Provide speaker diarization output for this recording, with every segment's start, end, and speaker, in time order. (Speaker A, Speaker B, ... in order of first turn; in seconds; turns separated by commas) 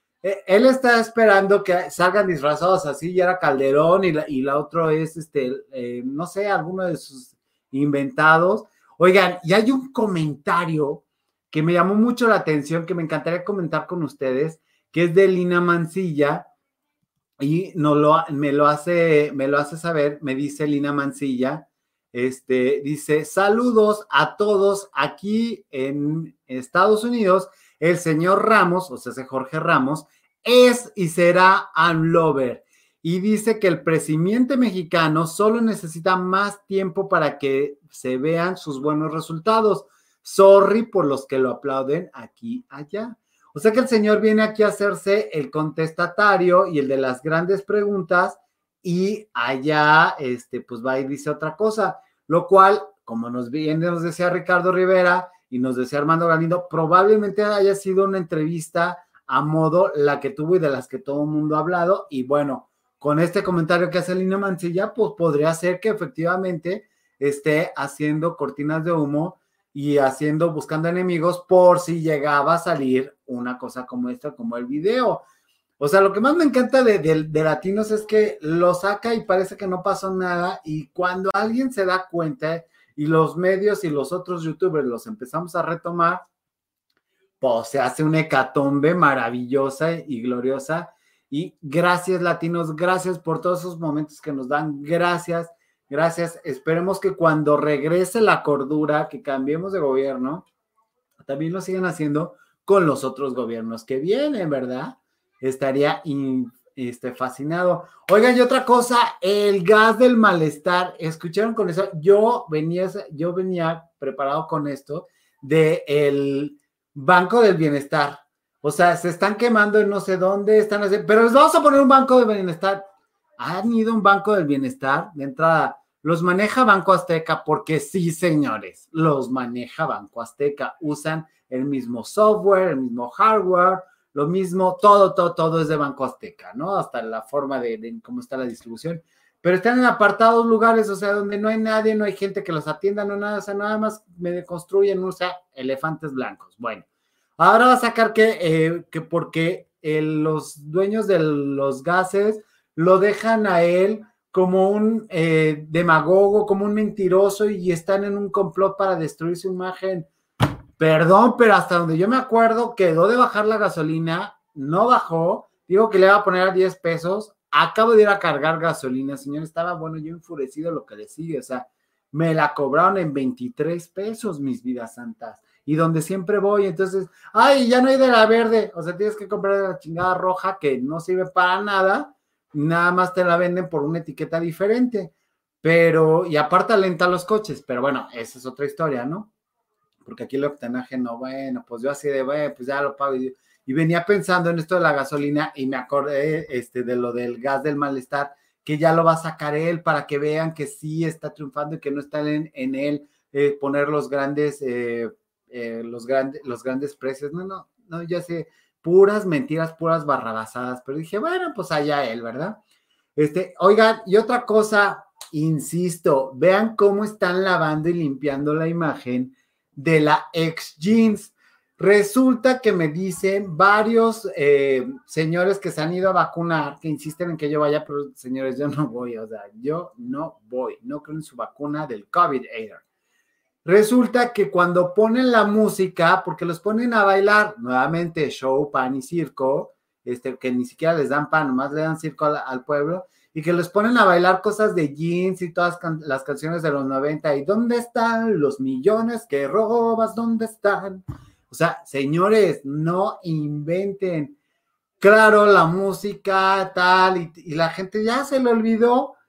Speaker A: 0.2-16.4, Speaker A: 17.4-75.2, Speaker A: 75.8-86.2, Speaker A: 87.4-100.5, Speaker A: 101.2-122.8, Speaker A: 123.4-146.8, Speaker A: 147.4-160.1, Speaker A: 160.8-189.3, Speaker A: 190.0-212.6, Speaker A: 213.2-232.8, Speaker A: 233.6-254.4, Speaker A: 255.0-259.1